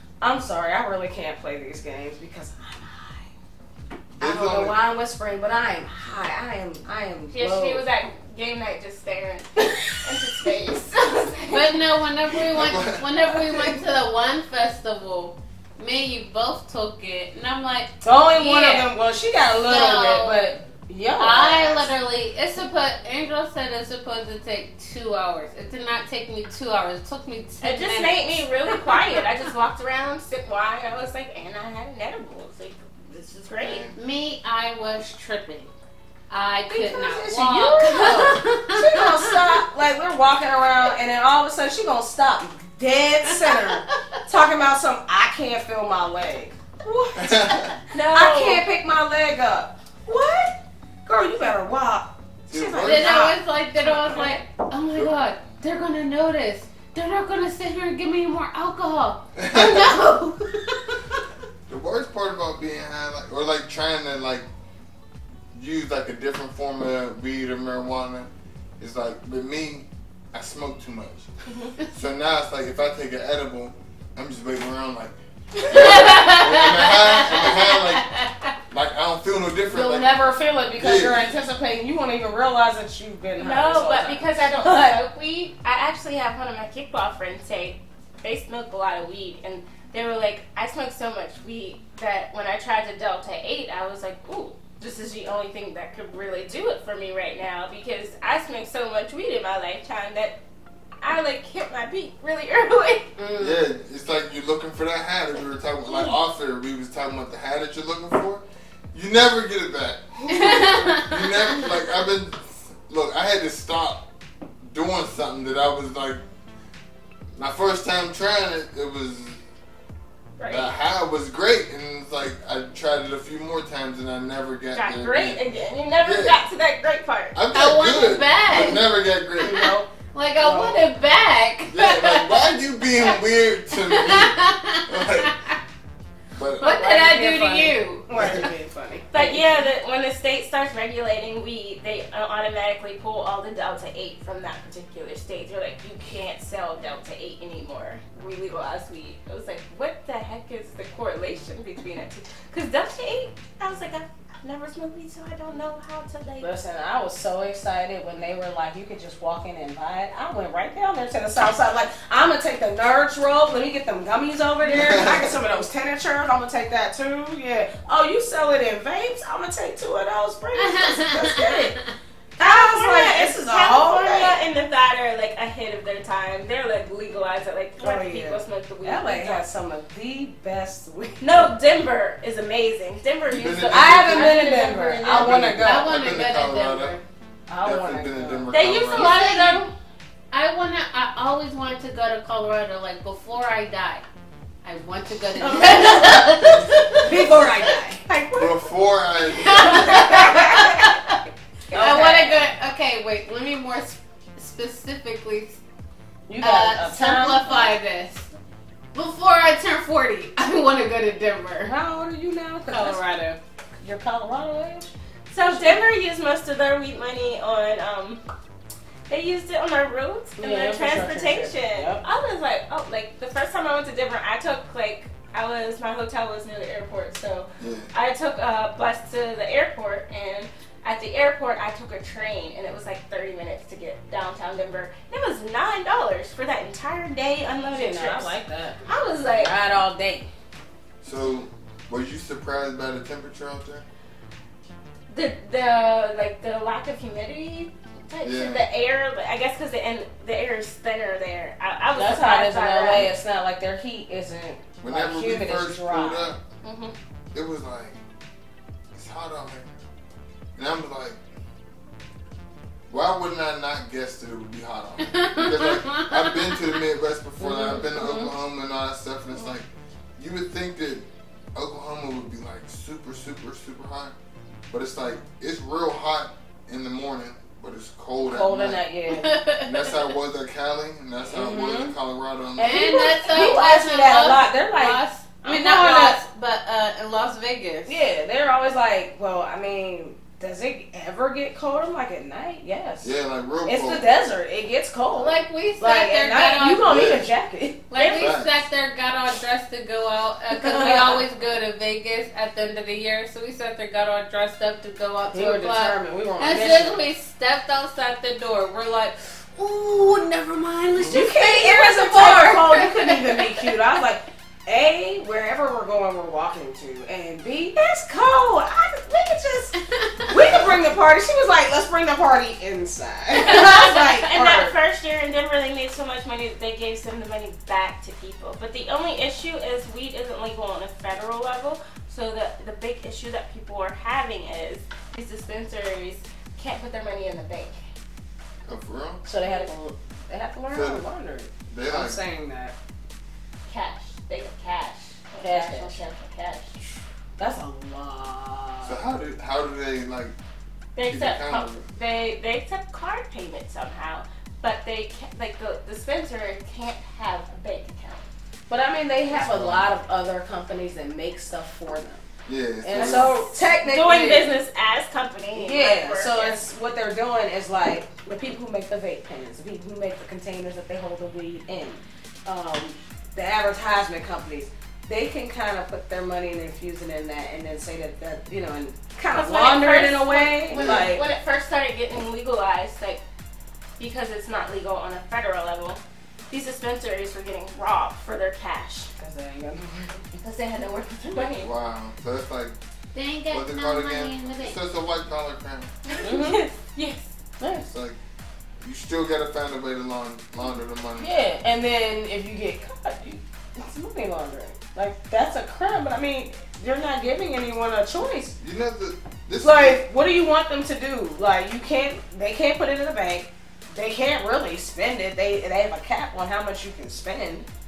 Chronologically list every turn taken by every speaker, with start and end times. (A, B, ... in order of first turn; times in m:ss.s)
0:00.2-0:03.3 A
0:04.2-0:04.8 B
0:04.2-0:07.8 A
0:07.3-0:11.8 C
0:11.5-0:18.8 D
0:12.3-0:13.8 B
0:18.0-0:21.9 A
0:19.6-0:20.5 D
0:21.2-0:29.2 D
0:27.6-0:33.9 C
0:33.6-0:34.0 B
0:34.0-0:35.7 D
0:36.3-0:39.3 D
0:36.7-0:47.5 A
0:43.5-0:43.9 D
0:47.2-0:47.7 B
0:47.9-0:48.6 C
0:48.1-0:53.4 A
0:52.5-0:53.2 B
0:52.8-1:01.0 D
0:59.4-1:00.0 B
1:01.7-1:04.5 B
1:05.5-1:11.3 B
1:11.5-1:11.7 C
1:11.9-1:18.1 B
1:15.6-1:18.3 D
1:18.7-1:20.1 B
1:19.7-1:25.0 A
1:20.8-1:21.3 B
1:23.4-1:40.4 C
1:41.0-1:43.1 C
1:43.2-1:43.6 A
1:43.4-1:54.0 B
1:45.9-1:46.1 C
1:50.3-1:51.1 D
1:54.6-1:56.2 B
1:57.4-1:59.4 B
2:00.4-2:00.7 C
2:00.5-2:05.4 B
2:04.7-2:07.4 C
2:06.0-2:06.4 B
2:07.3-2:09.7 B
2:07.5-2:08.8 D
2:09.4-2:09.9 A
2:09.4-2:13.2 D
2:10.4-2:10.9 A
2:11.7-2:15.3 B
2:13.7-2:15.6 D
2:16.3-2:16.6 B
2:16.6-2:18.5 D
2:16.6-2:19.7 A
2:18.2-2:18.4 B
2:19.1-2:36.5 C
2:36.4-2:51.8 A
2:44.6-2:45.3 B
2:50.6-2:51.8 D
2:52.4-2:54.4 A
2:52.4-2:59.4 C
2:57.8-3:01.5 A
3:01.2-3:05.4 C
3:03.3-3:04.4 B
3:03.7-3:06.0 A
3:05.0-3:07.0 B
3:05.6-3:07.0 D
3:07.5-3:08.5 A
3:07.6-3:09.3 B
3:08.5-3:09.7 C
3:08.9-3:09.6 D
3:10.3-3:14.0 D
3:14.6-3:17.5 D
3:15.4-3:16.4 A
3:16.2-3:16.7 B
3:16.9-3:18.1 A
3:18.1-3:18.5 C
3:18.3-3:20.0 B
3:19.3-3:21.2 D
3:19.6-3:20.8 A
3:21.7-3:22.4 A
3:21.7-3:25.6 D
3:26.3-3:27.7 A
3:26.4-3:28.3 D
3:28.9-3:31.7 D
3:31.6-3:33.0 A
3:32.7-3:33.4 D
3:33.8-3:34.9 A
3:35.3-3:38.2 C
3:35.4-3:35.8 A
3:39.1-3:59.5 C
3:40.4-3:42.0 A
3:47.6-3:47.9 B
3:57.7-3:58.8 A
3:59.4-4:00.3 A
4:01.0-4:03.8 B
4:05.1-4:13.1 C
4:08.2-4:08.7 B
4:11.9-4:16.3 A
4:14.8-4:16.4 B
4:16.6-4:16.9 C
4:17.3-4:18.0 B
4:18.9-4:19.7 B
4:20.6-4:21.2 B
4:22.9-4:34.2 B
4:25.1-4:26.7 D
4:27.4-4:28.3 A
4:34.7-4:38.8 B
4:38.2-4:39.4 A
4:39.1-4:40.0 D
4:39.6-4:42.9 B
4:41.3-4:41.9 A
4:42.6-4:48.0 D
4:42.7-4:46.2 A
4:47.9-4:53.1 A
4:53.0-4:54.1 B
4:53.6-4:57.8 A
4:55.2-4:57.1 D
4:56.8-4:57.3 B
4:57.9-5:13.7 D
4:58.0-4:58.4 C
4:58.2-4:58.6 B
5:00.5-5:01.2 A
5:05.3-5:07.0 A
5:10.9-5:11.3 B
5:11.1-5:19.7 A
5:19.9-5:20.3 D
5:20.3-5:24.8 A
5:20.4-5:20.7 B
5:23.5-5:37.8 C
5:23.8-5:24.0 D
5:38.7-5:39.2 B
5:39.2-5:42.8 A
5:39.4-5:39.7 C
5:40.7-5:41.0 B
5:41.7-5:42.2 B
5:43.7-5:46.8 C
5:45.4-5:46.0 A
5:47.4-5:49.0 A
5:48.8-5:50.4 B
5:51.0-5:58.2 C
5:51.0-5:51.8 B
5:58.7-6:02.3 A
5:59.3-5:59.9 B
6:02.5-6:03.4 B
6:02.8-6:04.6 A
6:02.9-6:06.6 C
6:05.6-6:21.2 A
6:19.3-6:23.2 C
6:20.7-6:21.1 B
6:24.0-6:29.1 C
6:29.2-6:30.2 A
6:30.3-6:31.7 C
6:31.6-6:32.8 B
6:33.1-6:34.8 D
6:33.5-6:35.9 B
6:36.1-6:37.3 C
6:36.2-6:36.6 A
6:37.6-6:37.9 A
6:37.9-6:38.2 B
6:38.8-6:41.3 B
6:41.2-6:48.6 A
6:48.6-6:50.0 B
6:49.6-6:57.7 A